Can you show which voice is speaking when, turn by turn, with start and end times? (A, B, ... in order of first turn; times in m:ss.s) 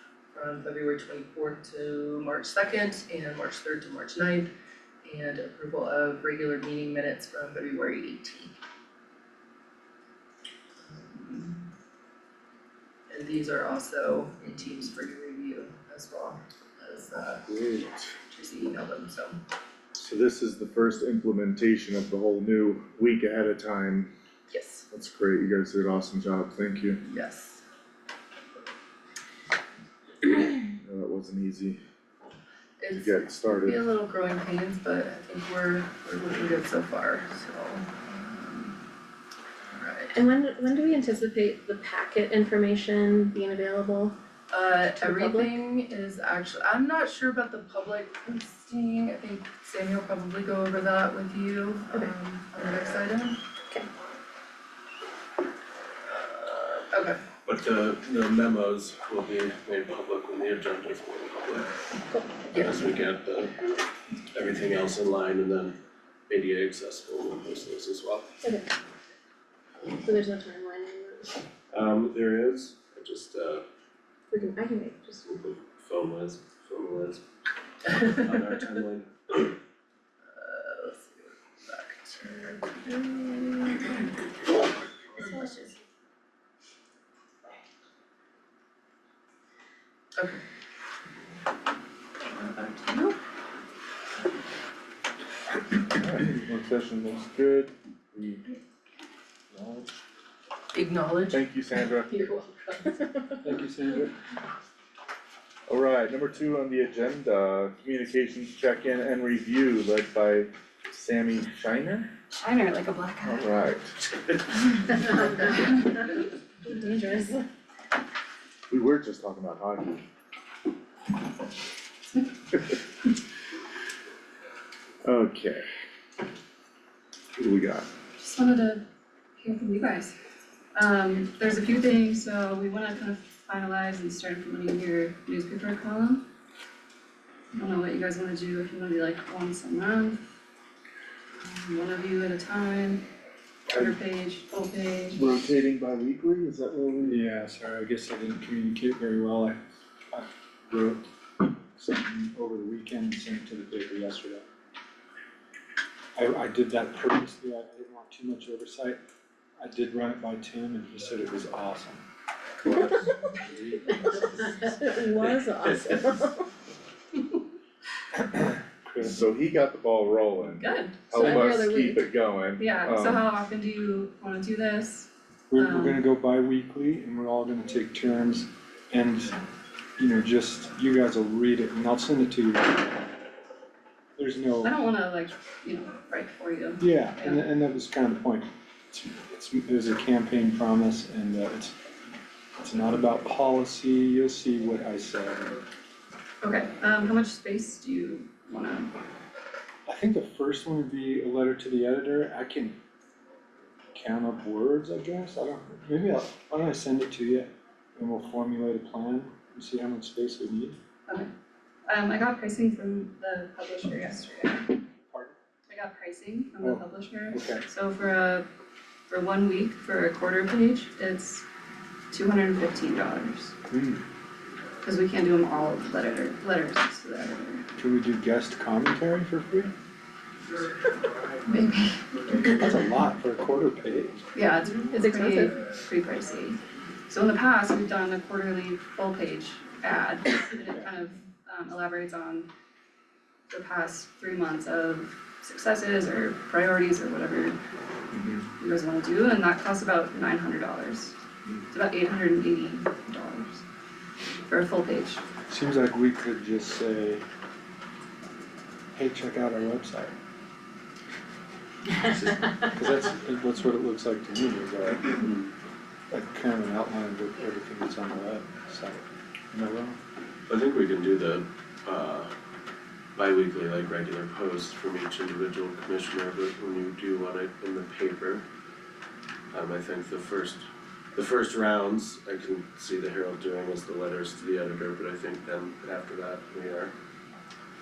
0:00.3-0:04.5 A
0:05.0-0:08.6 A
0:10.8-0:11.6 A
0:13.1-0:17.5 A
0:17.5-0:17.9 B
0:18.3-0:19.4 A
0:20.0-0:24.1 B
0:24.5-0:24.9 A
0:24.9-0:27.0 B
0:27.0-0:27.6 A
0:30.7-0:31.8 B
0:32.8-0:38.8 A
0:32.9-0:33.8 B
0:39.6-0:40.2 A
0:40.1-0:44.2 C
0:44.5-0:53.4 A
0:45.0-0:45.6 C
0:56.1-0:57.2 A
0:57.4-1:01.8 D
1:02.1-1:02.4 C
1:02.5-1:03.7 D
1:04.3-1:05.8 D
1:06.3-1:08.4 D
1:08.4-1:08.7 C
1:10.0-1:11.4 C
1:11.7-1:13.6 D
1:14.3-1:15.4 C
1:15.3-1:17.2 D
1:17.8-1:19.5 D
1:20.3-1:22.8 A
1:22.9-1:23.6 C
1:25.2-1:25.6 C
1:32.3-1:33.2 A
1:35.9-1:38.4 B
1:39.5-1:39.9 B
1:40.7-1:43.4 A
1:41.3-1:42.2 B
1:43.4-1:44.2 E
1:45.7-1:52.1 B
1:52.3-1:53.5 F
1:53.2-1:54.0 B
1:54.5-1:55.9 F
1:55.1-1:56.0 C
1:56.7-1:57.4 C
1:58.7-2:00.0 B
2:05.0-2:05.6 B
2:07.4-2:07.9 B
2:08.2-2:08.8 F
2:09.4-2:10.2 F
2:10.8-2:16.3 F
2:17.5-2:20.2 F
2:21.4-2:23.0 F
2:23.7-2:25.2 F
2:25.1-2:27.2 B
2:27.0-2:34.5 E
2:36.2-2:39.0 E
2:39.6-2:42.0 E
2:43.4-2:44.3 E
2:44.0-2:46.5 C
2:48.2-2:49.2 E
2:49.0-2:53.2 B
2:50.6-2:51.9 F
2:52.6-2:56.0 F
2:55.5-2:59.4 E
3:00.0-3:03.0 E
3:04.2-3:04.8 E
3:04.6-3:07.4 F
3:06.8-3:11.8 E
3:12.6-3:15.6 E
3:16.4-3:19.0 F
3:19.9-3:22.8 E
3:23.9-3:30.8 E
3:31.1-3:31.3 F
3:31.9-3:34.7 F
3:35.1-3:35.4 E
3:35.7-3:38.5 F
3:36.6-3:37.6 E
3:39.1-3:41.4 F
3:42.1-3:43.6 F
3:43.7-3:44.0 E
3:44.8-3:47.7 F
3:47.8-3:49.7 E
3:51.4-3:52.4 F
3:52.4-3:54.2 E
3:54.4-4:02.5 F
3:55.0-3:55.6 C
4:03.5-4:07.6 F
4:08.1-4:08.5 E
4:08.6-4:11.2 F
4:11.7-4:13.6 F
4:14.4-4:15.2 F
4:15.5-4:17.2 E
4:18.9-4:20.2 E
4:22.0-4:25.3 E
4:26.1-4:30.0 E
4:30.5-4:32.3 D
4:33.2-4:38.4 D
4:39.5-4:46.9 D